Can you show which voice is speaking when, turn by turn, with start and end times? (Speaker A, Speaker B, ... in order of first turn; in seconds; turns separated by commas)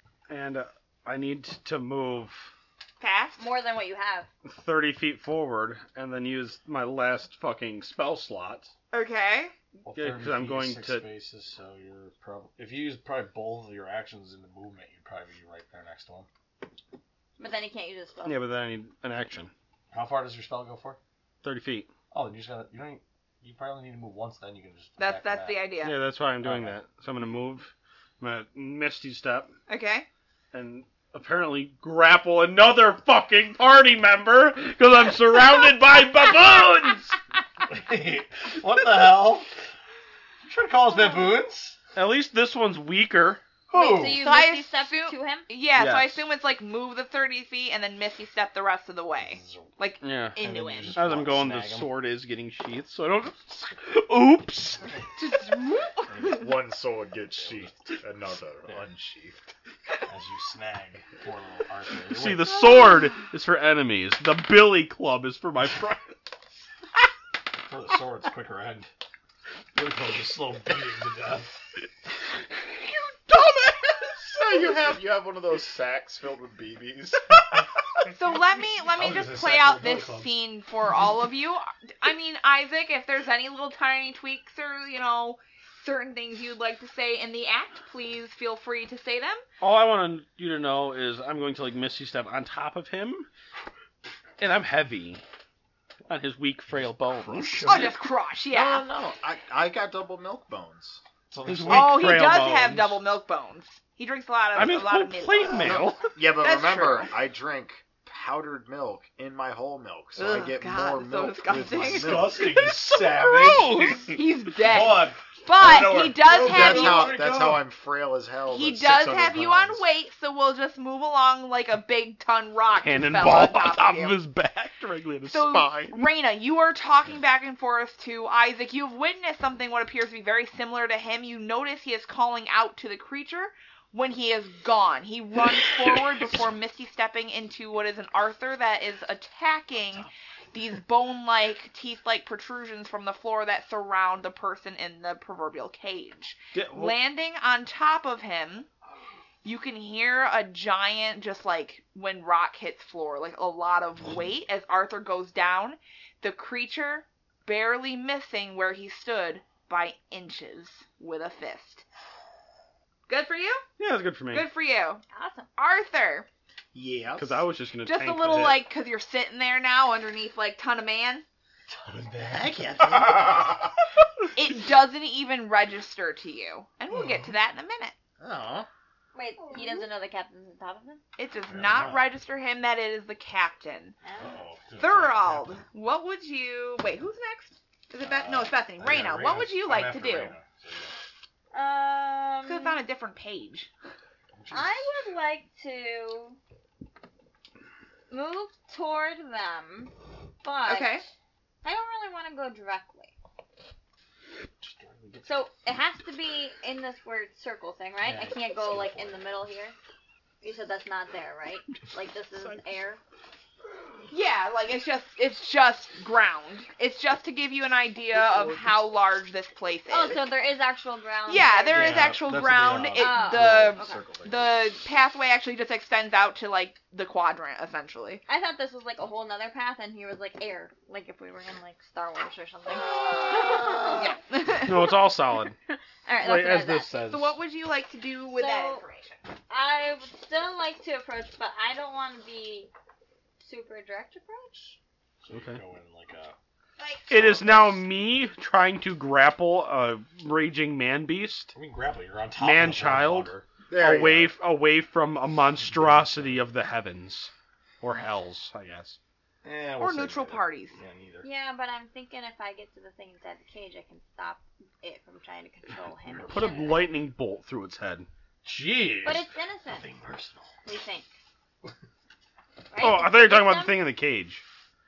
Speaker A: 0.3-2.5, Speaker B: 3.0-3.5, Speaker C: 3.4-4.3, Speaker A: 4.5-8.7, Speaker B: 8.9-9.6, Speaker D: 9.8-16.3, Speaker A: 9.9-11.1, Speaker C: 17.4-18.4, Speaker A: 18.2-19.5, Speaker D: 19.9-21.0, Speaker A: 21.4-21.9, Speaker D: 22.1-25.7, Speaker B: 25.0-26.0, Speaker A: 25.8-29.5, Speaker D: 26.4-26.8, Speaker B: 29.7-30.1, Speaker A: 30.5-37.2, Speaker D: 37.7-39.5, Speaker D: 40.4-41.8, Speaker A: 42.0-43.4, Speaker D: 43.7-44.2, Speaker C: 43.7-45.5, Speaker B: 44.1-51.0, Speaker A: 45.8-46.3, Speaker D: 49.2-49.8, Speaker A: 50.0-50.4, Speaker D: 50.4-51.9, Speaker A: 50.9-54.9, Speaker B: 55.2-56.1, Speaker D: 56.1-56.5, Speaker E: 56.2-59.5, Speaker D: 57.3-58.0, Speaker D: 60.1-62.5, Speaker A: 62.1-66.2, Speaker D: 67.6-68.9, Speaker D: 69.7-71.6, Speaker A: 73.3-73.8, Speaker E: 74.3-77.4, Speaker B: 78.1-89.4, Speaker D: 78.9-80.3, Speaker A: 89.6-93.3, Speaker A: 94.4-95.2, Speaker A: 96.1-97.9, Speaker D: 97.2-98.0, Speaker B: 97.7-98.9, Speaker E: 98.5-101.0, Speaker D: 101.3-102.3, Speaker A: 101.5-103.0, Speaker B: 101.7-107.1, Speaker A: 104.5-106.1, Speaker E: 105.6-112.5, Speaker B: 110.2-112.4, Speaker D: 111.8-117.6, Speaker A: 112.5-114.2, Speaker B: 114.1-117.2, Speaker E: 116.2-119.9, Speaker B: 118.5-124.2, Speaker A: 122.8-126.0, Speaker B: 125.3-148.7, Speaker E: 125.5-126.0, Speaker A: 146.5-147.0, Speaker B: 149.4-161.8, Speaker B: 163.1-163.6, Speaker A: 163.8-164.5, Speaker B: 164.3-165.0, Speaker C: 165.1-165.5, Speaker B: 165.6-166.3, Speaker E: 166.7-167.4, Speaker A: 167.2-168.6, Speaker B: 167.8-171.2, Speaker D: 171.7-173.2, Speaker E: 172.2-173.7, Speaker B: 174.3-177.9, Speaker D: 176.9-177.3, Speaker E: 178.2-178.7, Speaker C: 179.2-181.0, Speaker B: 181.2-184.0, Speaker D: 181.5-182.1, Speaker C: 184.0-184.3, Speaker D: 184.2-185.6, Speaker B: 184.8-190.4, Speaker D: 188.0-190.9, Speaker C: 191.5-192.8, Speaker B: 192.4-193.7, Speaker D: 194.4-194.7, Speaker C: 194.5-196.4, Speaker C: 198.1-201.0, Speaker B: 200.7-201.1, Speaker C: 201.6-203.1, Speaker D: 204.6-205.5, Speaker C: 205.2-209.8, Speaker D: 208.0-209.4, Speaker C: 210.4-213.0, Speaker B: 214.1-220.3, Speaker D: 218.1-218.8, Speaker C: 219.9-222.2, Speaker B: 221.3-228.2, Speaker D: 221.7-224.6, Speaker C: 222.9-224.0, Speaker C: 228.3-234.2, Speaker B: 233.9-234.9, Speaker A: 234.5-235.6, Speaker C: 235.7-237.0, Speaker A: 236.2-237.3, Speaker B: 237.1-239.3, Speaker C: 238.3-238.8, Speaker C: 239.5-242.7, Speaker C: 243.4-244.8, Speaker D: 245.2-246.4, Speaker A: 245.3-245.6, Speaker B: 246.8-247.1, Speaker A: 247.1-251.6, Speaker D: 247.2-247.8, Speaker D: 251.5-253.5, Speaker A: 252.4-259.0, Speaker E: 253.7-254.3, Speaker D: 255.8-256.4, Speaker D: 259.4-261.3, Speaker B: 259.8-260.8, Speaker C: 261.2-266.8, Speaker D: 266.1-266.8, Speaker A: 266.3-268.1, Speaker D: 268.4-270.6, Speaker C: 269.0-269.9, Speaker C: 270.6-271.1, Speaker C: 272.7-273.8, Speaker A: 272.8-274.4